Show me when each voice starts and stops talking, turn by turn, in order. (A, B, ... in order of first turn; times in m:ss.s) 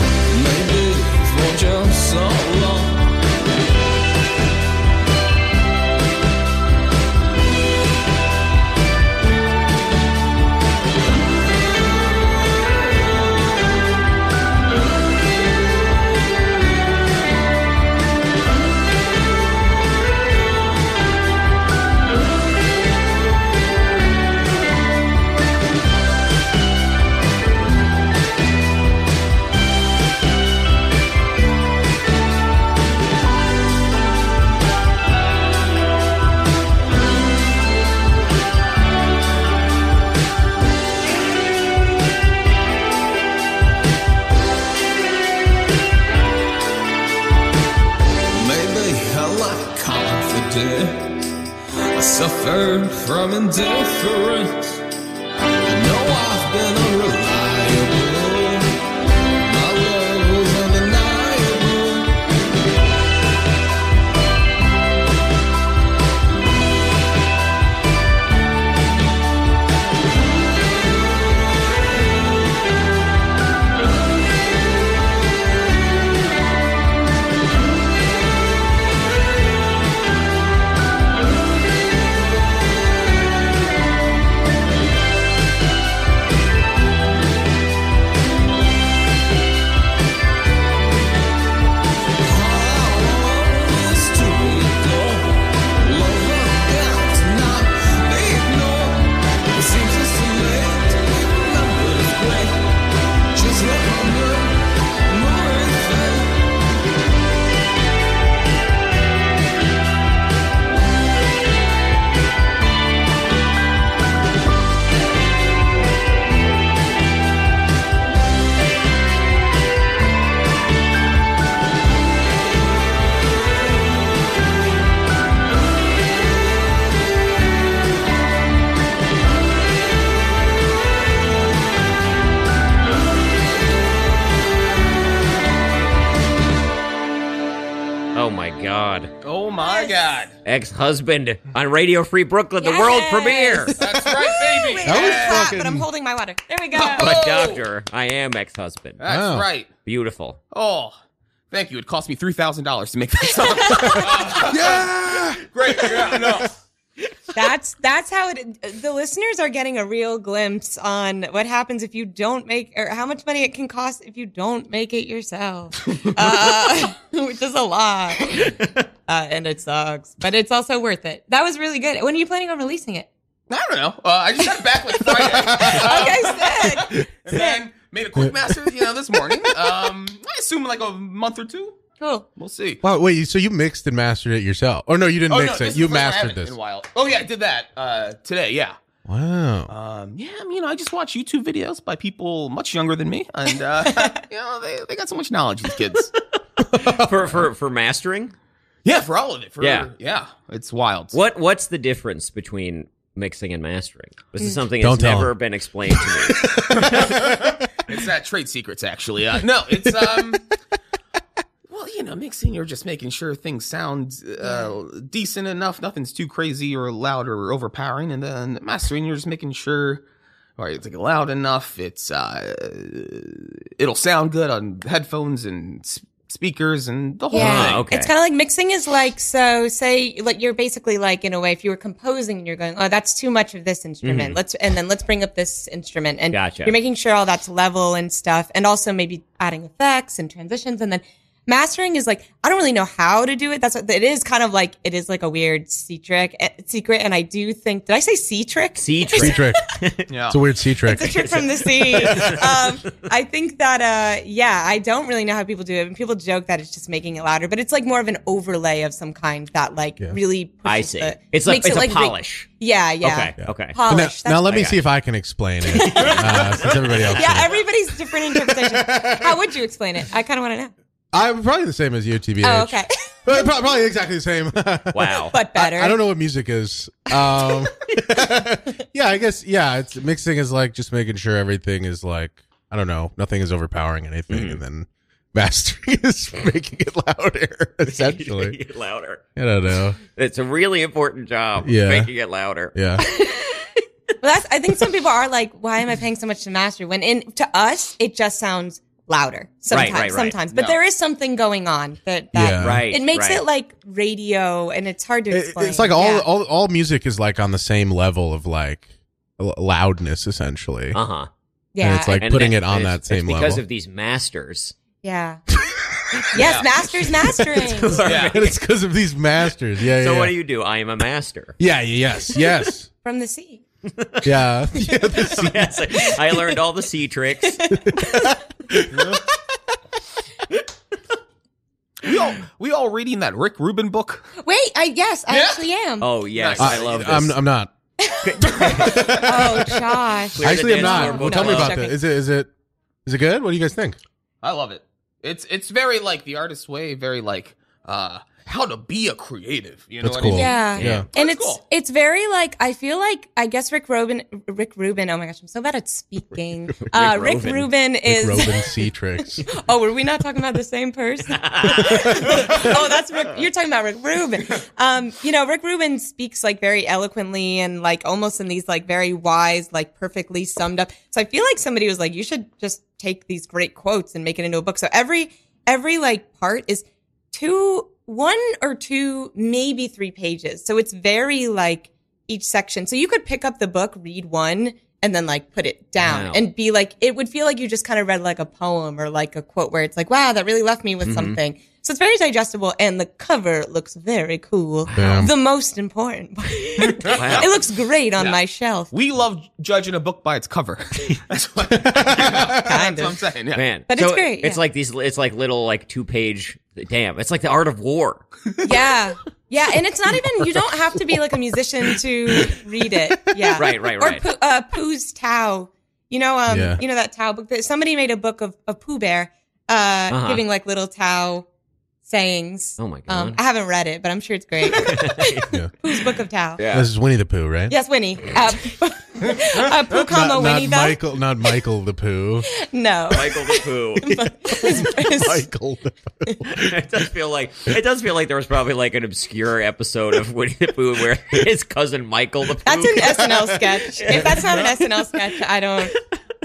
0:00.3-0:03.1 A
0:48.3-0:51.3 A
0:52.0-0:54.8 A
0:55.6-0:58.8 A
0:59.4-1:02.2 A
1:32.2-1:42.6 A
1:43.3-1:46.4 A
2:18.1-2:19.1 B
2:19.2-2:20.4 C
2:19.6-2:20.1 D
2:20.4-2:23.8 B
2:22.6-2:27.3 D
2:23.7-2:25.5 C
2:24.8-2:25.8 E
2:26.7-2:27.6 C
2:27.0-2:29.0 B
2:29.0-2:29.7 C
2:29.0-2:29.5 E
2:29.8-2:30.4 B
2:30.5-2:31.0 C
2:31.5-2:36.5 C
2:33.4-2:34.2 D
2:34.3-2:35.4 E
2:37.3-2:53.1 D
2:53.5-3:01.8 C
2:55.2-2:55.9 E
2:55.3-2:57.6 D
3:02.0-3:02.3 D
3:02.4-3:02.8 C
3:02.8-3:06.5 E
3:05.3-3:08.8 C
3:09.0-3:09.7 E
3:09.7-3:16.1 C
3:16.7-3:17.2 E
3:16.7-3:18.3 B
3:18.8-3:21.2 C
3:19.6-3:19.9 B
3:21.1-3:26.7 B
3:24.8-3:25.4 E
3:26.1-3:27.6 E
3:26.7-3:30.5 C
3:31.7-3:40.0 C
3:34.4-3:34.7 D
3:40.6-3:47.8 C
3:47.3-4:09.5 D
3:47.3-3:48.1 B
3:54.0-3:54.4 B
3:56.3-3:56.7 B
4:08.8-4:10.1 B
4:09.2-4:09.7 E
4:10.1-4:10.4 C
4:10.3-4:12.5 E
4:10.8-4:24.6 D
4:11.8-4:12.8 B
4:20.6-4:22.5 B
4:23.0-4:23.8 B
4:23.4-4:29.4 E
4:24.4-4:24.8 B
4:25.7-4:26.4 D
4:26.2-4:26.9 C
4:27.1-4:30.7 D
4:31.1-4:48.6 E
4:32.4-4:33.5 D
4:34.9-4:35.3 B
4:35.3-4:36.0 D
4:44.3-4:44.6 B
4:47.8-4:49.2 B
4:49.4-4:50.0 E
4:50.1-4:53.2 B
4:51.6-4:52.1 E
4:52.7-4:53.0 E
4:54.2-5:06.2 D
4:59.7-5:00.4 B
5:00.5-5:00.8 C
5:02.3-5:02.9 E
5:02.6-5:03.4 B
5:05.3-5:08.9 E
5:09.4-5:11.0 E
5:10.9-5:11.3 B
5:11.7-5:12.2 D
5:11.8-5:13.6 E
5:12.2-5:14.7 B
5:15.0-5:15.4 D
5:15.7-5:16.2 E
5:16.3-5:18.0 D
5:16.4-5:16.7 C
5:17.2-5:20.3 E
5:17.6-5:18.5 B
5:18.0-5:18.3 C
5:20.0-5:21.6 B
5:21.6-5:22.9 E
5:23.0-5:23.6 D
5:23.9-5:24.3 B
5:24.2-5:25.9 E
5:25.2-5:27.7 B
5:27.5-5:28.3 D
5:27.7-5:29.3 E
5:28.9-5:29.2 C
5:32.0-5:34.3 C
5:34.4-5:36.1 D
5:35.3-5:35.6 C
5:36.0-5:37.4 B
5:36.3-5:37.1 C
5:36.6-5:37.7 E
5:38.0-5:42.0 D
5:38.2-5:41.8 B
5:38.7-5:42.5 E
5:43.0-5:44.0 E
5:44.4-5:51.6 C
5:50.0-5:51.0 E
5:50.2-5:58.9 D
5:50.7-5:51.0 B
5:56.9-5:57.7 B
5:58.0-5:59.4 E
5:59.4-6:38.9 D
6:01.4-6:02.6 B
6:01.8-6:02.5 E
6:26.0-6:26.4 B
6:31.0-6:31.4 B
6:34.9-6:35.3 B
6:34.9-6:35.3 E
6:36.8-6:37.5 C
6:37.0-6:37.5 B
6:38.9-6:43.6 C
6:41.8-6:42.6 E
6:42.5-6:43.2 D
6:43.5-6:48.5 B
6:43.9-6:44.6 D
6:48.6-7:01.5 D
6:53.5-6:54.2 B
6:56.5-6:56.8 E
7:00.1-7:00.4 B
7:02.0-7:06.6 D
7:02.8-7:03.4 B
7:04.7-7:05.5 B
7:06.6-7:06.9 B
7:06.7-7:07.8 E
7:07.7-7:11.0 D
7:09.9-7:12.5 E
7:12.6-7:15.4 D
7:13.1-7:14.7 B
7:14.7-7:16.8 E
7:16.5-7:23.2 B
7:22.6-7:26.0 D
7:24.0-7:24.7 B